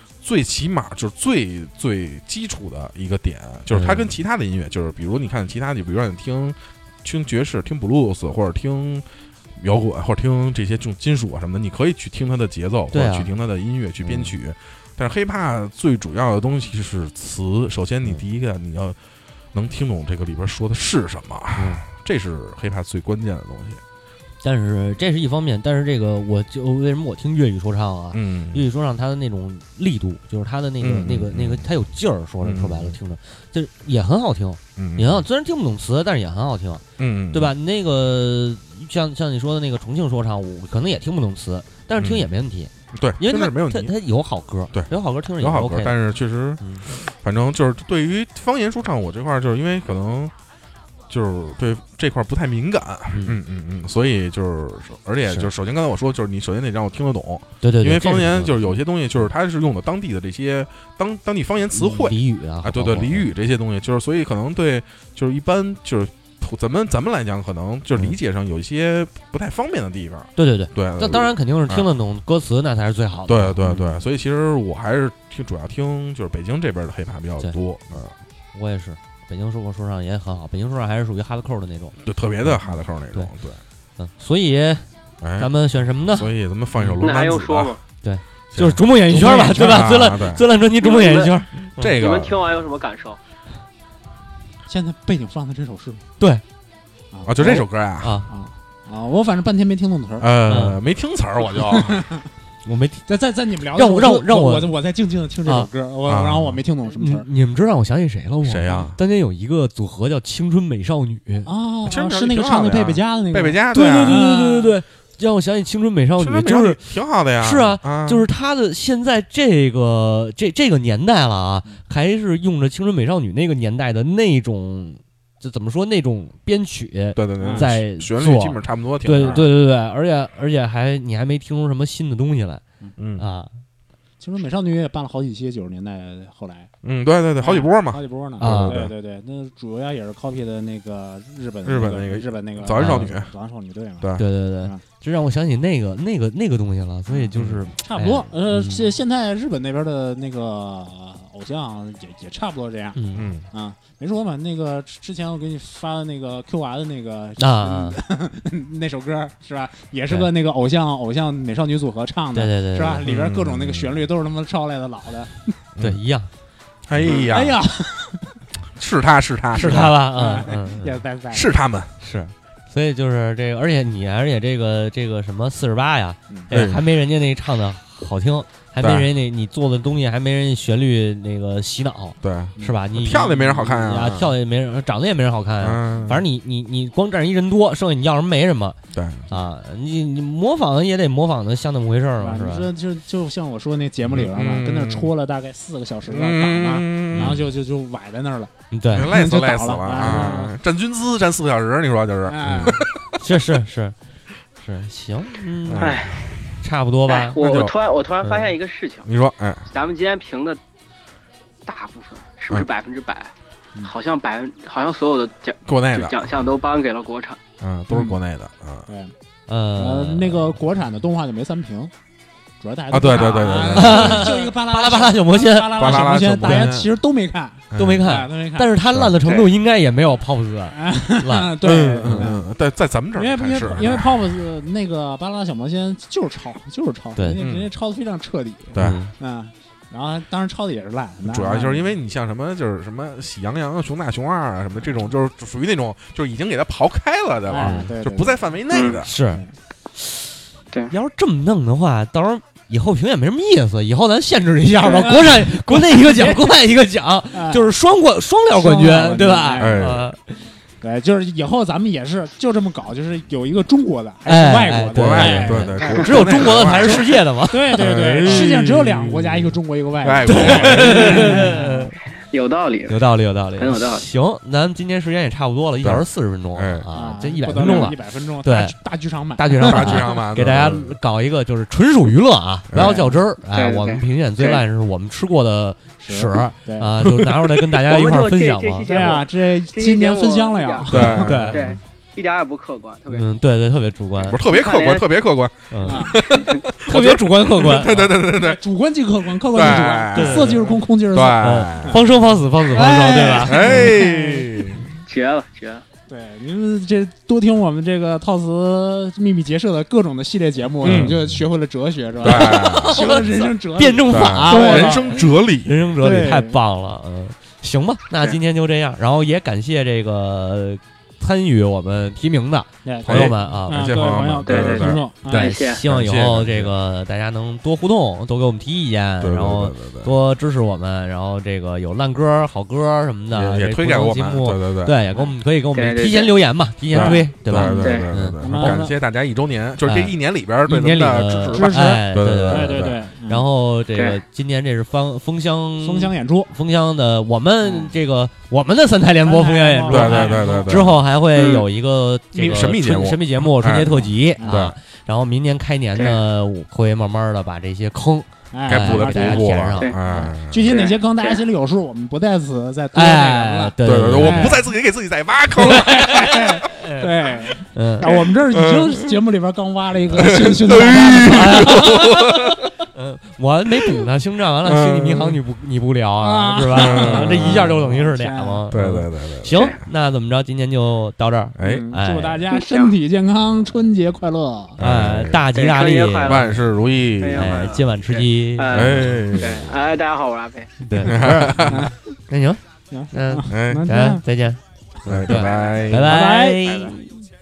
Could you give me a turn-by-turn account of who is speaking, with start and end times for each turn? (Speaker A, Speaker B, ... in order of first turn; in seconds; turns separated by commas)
Speaker A: 0.2-9.1, Speaker B: 3.7-4.1, Speaker A: 9.6-19.0, Speaker B: 12.9-13.3, Speaker B: 14.0-14.3, Speaker A: 19.5-23.8, Speaker B: 21.6-21.8, Speaker B: 24.4-46.0, Speaker A: 28.1-28.6, Speaker A: 30.8-31.7, Speaker A: 32.4-33.0, Speaker A: 34.8-35.2, Speaker A: 37.0-37.5, Speaker A: 42.0-42.3, Speaker A: 42.9-44.0, Speaker A: 44.7-50.3, Speaker B: 46.6-46.9, Speaker A: 51.1-71.9, Speaker B: 53.1-53.4, Speaker B: 57.6-58.7, Speaker B: 61.7-63.3, Speaker B: 70.4-73.9, Speaker A: 73.3-78.1, Speaker B: 78.5-82.0, Speaker A: 82.0-83.6, Speaker B: 84.0-84.9, Speaker A: 85.2-87.8, Speaker B: 85.4-87.0, Speaker C: 87.0-87.8, Speaker B: 88.0-91.9, Speaker A: 88.5-90.4, Speaker D: 89.1-90.0, Speaker C: 90.8-93.2, Speaker A: 91.8-92.4, Speaker D: 94.7-96.0, Speaker D: 97.1-97.7, Speaker A: 97.3-98.1, Speaker B: 98.0-98.3, Speaker D: 98.3-100.3, Speaker A: 100.2-102.1, Speaker B: 100.5-100.8, Speaker D: 101.5-102.3, Speaker B: 102.7-103.0, Speaker D: 103.1-107.3, Speaker B: 103.8-104.8, Speaker A: 106.1-106.6, Speaker B: 106.9-111.5, Speaker A: 108.4-109.0, Speaker D: 111.5-114.8, Speaker A: 111.9-114.2, Speaker B: 113.7-116.8, Speaker A: 116.2-118.3, Speaker B: 117.4-132.6, Speaker A: 127.2-129.5, Speaker D: 127.4-127.7, Speaker D: 129.2-129.5, Speaker A: 133.0-133.2, Speaker B: 133.2-133.6, Speaker D: 134.2-136.7, Speaker A: 136.8-138.9, Speaker D: 137.4-144.8, Speaker B: 138.4-138.9, Speaker A: 141.6-143.3, Speaker B: 142.8-143.1, Speaker A: 144.0-144.2, Speaker B: 144.2-148.8, Speaker D: 147.1-165.5, Speaker A: 147.3-147.6, Speaker B: 152.9-153.3, Speaker A: 153.2-153.5, Speaker B: 157.4-158.0, Speaker B: 162.3-163.0, Speaker A: 163.1-164.1, Speaker B: 165.8-166.3, Speaker A: 166.9-167.6, Speaker D: 167.1-168.4, Speaker A: 168.7-170.0, Speaker B: 169.6-171.0, Speaker D: 169.6-171.5, Speaker A: 171.3-171.9, Speaker B: 172.0-188.8, Speaker A: 176.5-176.8, Speaker A: 178.8-179.1, Speaker A: 182.2-184.3, Speaker A: 185.6-186.2, Speaker A: 188.9-189.3, Speaker B: 189.3-192.7, Speaker D: 192.2-200.5, Speaker A: 194.0-195.1, Speaker A: 196.1-197.5, Speaker B: 197.1-197.4, Speaker B: 198.7-199.1, Speaker A: 198.9-202.9, Speaker D: 202.3-202.8, Speaker B: 202.7-203.9, Speaker B: 204.6-206.0, Speaker A: 205.7-206.5, Speaker C: 205.8-206.1, Speaker B: 206.6-207.4, Speaker C: 207.1-209.1, Speaker A: 207.4-207.7, Speaker B: 208.2-208.5, Speaker A: 209.1-209.7, Speaker C: 209.7-210.6, Speaker C: 211.7-213.3, Speaker C: 213.8-217.4, Speaker A: 215.7-216.2, Speaker A: 217.6-218.9, Speaker D: 217.9-218.2, Speaker D: 218.9-219.1, Speaker B: 219.5-220.6, Speaker D: 219.8-221.9, Speaker D: 222.6-228.7, Speaker A: 222.9-224.3, Speaker B: 223.7-226.7, Speaker A: 225.7-226.9, Speaker A: 227.7-228.1, Speaker B: 227.8-232.3, Speaker A: 228.9-229.2, Speaker D: 230.7-232.4, Speaker A: 231.7-234.4, Speaker D: 233.2-241.9, Speaker B: 233.7-234.0, Speaker A: 237.4-237.7, Speaker A: 238.7-239.0, Speaker B: 238.8-239.1, Speaker A: 241.3-249.1, Speaker D: 247.5-248.5, Speaker B: 247.6-247.9, Speaker C: 248.7-249.0, Speaker B: 249.0-249.4, Speaker B: 250.0-250.3, Speaker B: 250.9-260.2, Speaker D: 254.8-256.5, Speaker D: 257.3-257.7, Speaker D: 258.5-259.9, Speaker A: 259.6-260.1, Speaker D: 260.8-271.9, Speaker B: 264.3-268.7, Speaker A: 264.9-267.2, Speaker A: 267.7-271.6, Speaker B: 270.3-272.0, Speaker C: 272.3-273.0, Speaker B: 272.9-278.8, Speaker C: 273.6-274.0, Speaker A: 275.8-276.9, Speaker D: 276.9-280.2, Speaker B: 279.4-289.2, Speaker A: 279.6-281.0, Speaker A: 282.7-283.1, Speaker D: 282.8-283.1, Speaker C: 283.5-284.6, Speaker D: 286.0-286.9, Speaker C: 287.9-290.9, Speaker D: 288.9-291.6, Speaker A: 290.9-291.8, Speaker B: 290.9-291.6, Speaker C: 291.5-293.3, Speaker B: 293.1-294.4, Speaker A: 294.2-298.6, Speaker C: 294.5-295.1, Speaker B: 295.7-296.1, Speaker D: 295.9-296.2, Speaker B: 296.8-298.2, Speaker D: 298.3-302.1, Speaker A: 299.4-302.0, Speaker B: 300.1-300.7, Speaker B: 301.4-303.9, Speaker D: 302.6-305.0, Speaker A: 303.4-304.8, Speaker C: 305.1-305.8, Speaker D: 306.1-315.3, Speaker A: 310.8-311.2, Speaker B: 310.8-311.2, Speaker A: 312.2-313.2, Speaker B: 312.2-324.2, Speaker A: 314.1-315.8, Speaker D: 316.0-316.6, Speaker D: 322.9-325.6, Speaker A: 323.1-325.1, Speaker C: 324.5-325.8, Speaker B: 325.3-338.8, Speaker A: 325.6-326.7, Speaker A: 329.2-330.1, Speaker A: 333.3-334.9, Speaker C: 335.8-336.4, Speaker A: 336.9-343.0, Speaker D: 336.9-337.9, Speaker D: 338.4-338.9, Speaker B: 339.8-340.1, Speaker B: 340.7-359.9, Speaker D: 341.5-343.5, Speaker D: 345.8-346.5, Speaker D: 347.6-347.9, Speaker D: 349.2-350.9, Speaker A: 349.9-351.0, Speaker C: 351.4-351.6, Speaker A: 352.4-354.8, Speaker D: 352.4-352.7, Speaker D: 354.4-354.7, Speaker D: 358.5-364.6, Speaker A: 358.7-360.9, Speaker C: 360.7-361.4, Speaker B: 362.9-364.5, Speaker A: 363.9-366.4, Speaker D: 365.6-372.0, Speaker B: 365.6-367.1, Speaker B: 367.7-368.1, Speaker A: 368.5-369.2, Speaker A: 370.1-372.7, Speaker B: 371.3-372.4, Speaker B: 372.9-382.4, Speaker A: 374.6-375.4, Speaker D: 376.2-378.7, Speaker A: 376.7-377.8, Speaker A: 378.7-379.8, Speaker A: 381.6-381.9, Speaker D: 381.6-384.8, Speaker C: 382.5-383.0, Speaker A: 384.8-385.4, Speaker B: 384.8-386.5, Speaker C: 385.6-386.6, Speaker A: 386.2-387.8, Speaker C: 387.2-390.7, Speaker B: 387.4-389.2, Speaker A: 388.7-389.7, Speaker B: 390.8-392.6, Speaker A: 391.0-391.9, Speaker D: 391.2-392.0, Speaker D: 392.9-394.2, Speaker B: 393.1-396.9, Speaker A: 393.5-393.9, Speaker A: 395.1-396.2, Speaker C: 395.3-395.8, Speaker D: 395.9-396.9, Speaker C: 396.7-397.2